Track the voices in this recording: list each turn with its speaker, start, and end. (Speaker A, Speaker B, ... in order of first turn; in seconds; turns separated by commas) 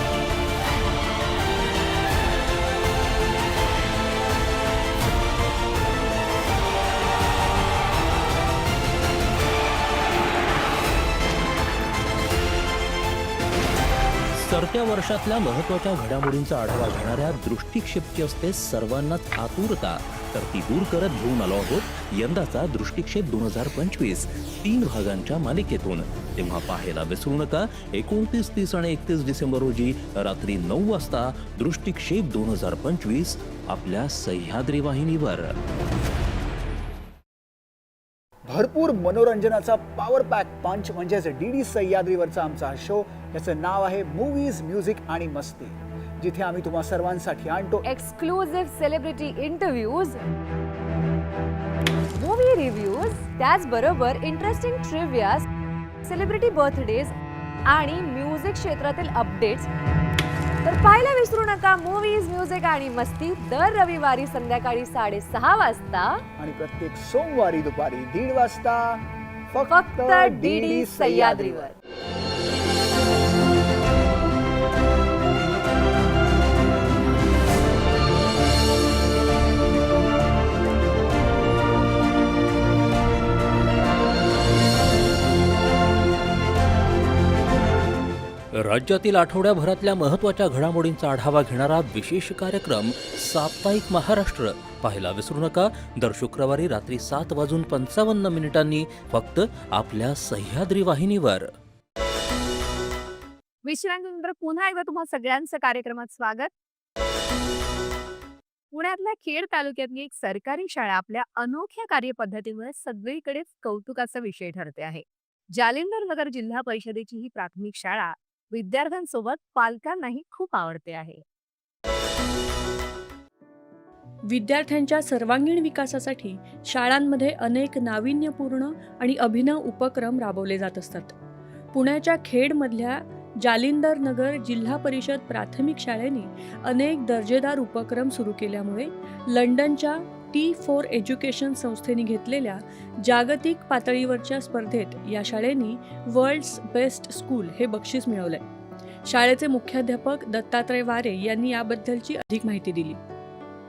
Speaker A: 14.3-35.5, Speaker B: 38.5-47.9, Speaker C: 47.8-50.2, Speaker C: 52.2-55.5, Speaker C: 56.0-57.1, Speaker C: 57.7-59.7, Speaker C: 60.6-66.2, Speaker B: 66.4-71.7, Speaker C: 69.7-71.8, Speaker A: 88.6-101.5, Speaker D: 103.7-106.5, Speaker D: 108.7-121.2, Speaker E: 124.3-131.2, Speaker E: 131.7-148.4, Speaker E: 149.1-153.0